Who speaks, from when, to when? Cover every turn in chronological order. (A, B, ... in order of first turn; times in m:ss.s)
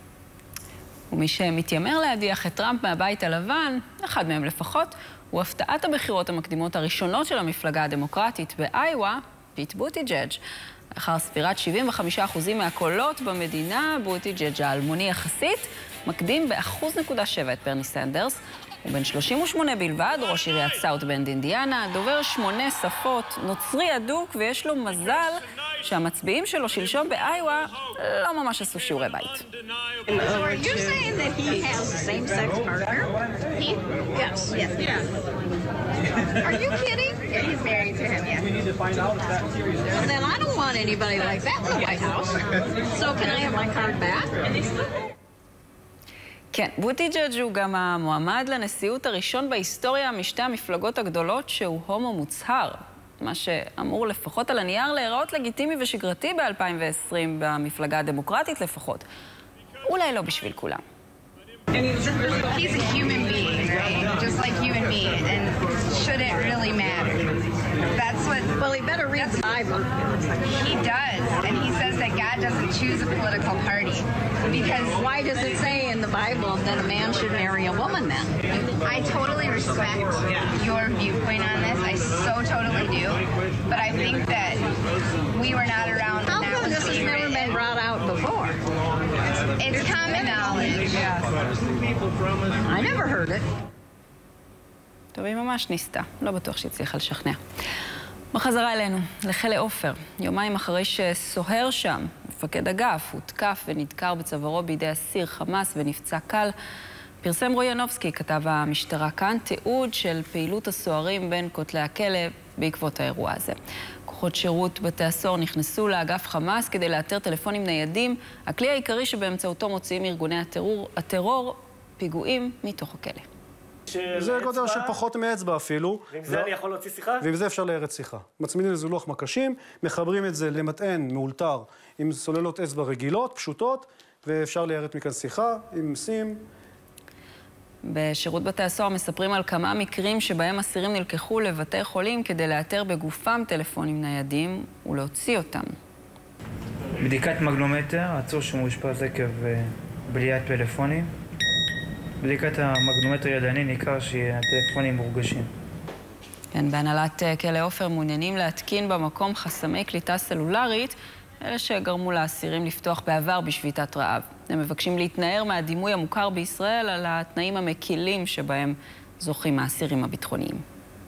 0:01.1-0:10.4 A
0:10.9-0:29.5 A
0:30.1-0:33.1 B
0:34.1-0:35.0 B
0:36.4-0:38.2 B
0:37.4-0:38.5 C
0:39.9-0:42.3 B
0:42.9-0:44.3 B
0:46.5-0:59.0 A
0:59.9-1:00.8 A
1:02.2-1:07.3 C
1:07.9-1:09.5 C
1:08.5-1:09.8 B
1:10.5-1:15.0 C
1:14.5-1:18.6 B
1:18.8-1:24.7 C
1:25.3-1:27.6 C
1:26.2-1:28.6 B
1:29.6-1:31.1 C
1:29.7-1:31.1 B
1:32.6-1:33.5 B
1:35.2-1:37.4 A
1:38.3-1:46.5 A
1:47.2-1:53.6 A
1:54.1-2:03.2 A
2:03.9-2:05.0 D
2:04.2-2:06.6 E
2:06.1-2:07.3 D
2:07.2-2:16.5 E
2:17.8-2:25.7 A
2:27.0-2:31.1 F
2:32.2-2:35.5 F
2:36.5-2:50.6 A